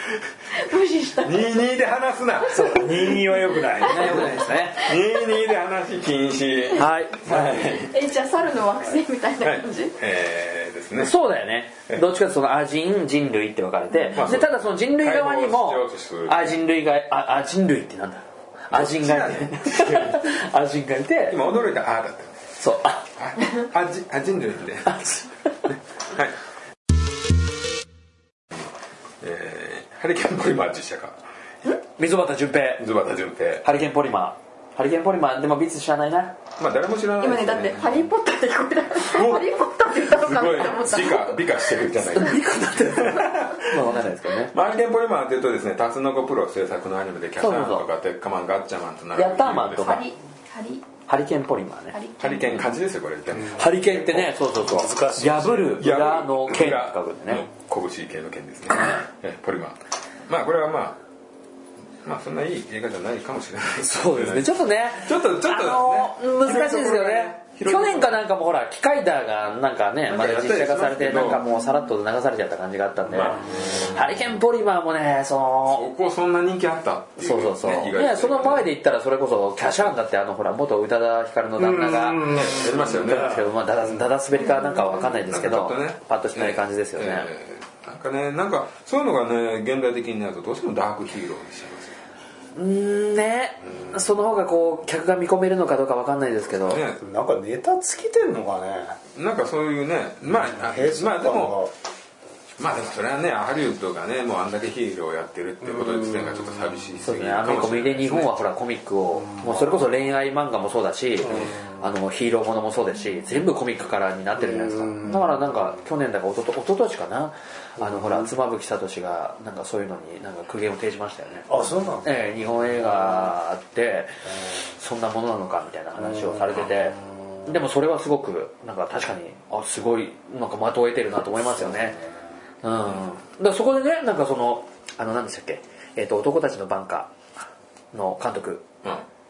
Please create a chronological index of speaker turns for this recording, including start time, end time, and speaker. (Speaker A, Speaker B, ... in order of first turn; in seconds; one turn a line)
Speaker A: 0.5-1.6
Speaker B: 1.2-3.0
Speaker A: 2.5-3.2
Speaker C: 2.5-4.5
Speaker D: 3.8-4.9
Speaker B: 3.9-7.9
Speaker D: 6.8-7.6
Speaker A: 7.8-9.9
Speaker B: 9.4-11.1
Speaker D: 11.0-21.4
Speaker B: 14.1-16.4
Speaker B: 18.7-20.3
Speaker B: 21.3-22.4
Speaker D: 22.6-23.0
Speaker B: 23.1-25.0
Speaker D: 24.9-25.2
Speaker B: 25.6-26.4
Speaker B: 29.2-31.2
Speaker D: 31.6-32.8
Speaker B: 32.8-33.6
Speaker D: 33.6-36.4
Speaker B: 36.6-38.0
Speaker A: 37.2-41.5
Speaker B: 39.0-43.8
Speaker D: 42.1-44.5
Speaker B: 44.5-50.0
Speaker D: 47.4-47.9
Speaker D: 49.1-50.1
Speaker A: 49.8-50.8
Speaker D: 51.1-52.0
Speaker A: 51.9-52.7
Speaker B: 52.2-53.7
Speaker C: 53.3-55.9
Speaker D: 53.6-57.5
Speaker B: 55.8-61.0
Speaker B: 62.0-68.2
Speaker D: 63.8-75.8
Speaker B: 70.1-71.5
Speaker B: 73.1-73.6
Speaker B: 75.6-78.7
Speaker D: 77.2-87.3
Speaker C: 81.6-83.4
Speaker B: 82.2-83.5
Speaker A: 84.3-85.2
Speaker B: 85.3-92.0
Speaker D: 92.5-96.8
Speaker B: 96.6-97.0
Speaker C: 97.0-99.0
Speaker B: 99.1-101.6
Speaker C: 100.3-101.7
Speaker B: 102.6-108.3
Speaker D: 107.0-121.5
Speaker C: 111.3-111.6
Speaker C: 114.4-115.4
Speaker C: 117.8-118.1
Speaker C: 121.5-122.3
Speaker D: 122.0-124.1
Speaker D: 124.8-132.0
Speaker C: 126.1-126.8
Speaker D: 132.6-137.1
Speaker D: 137.9-138.7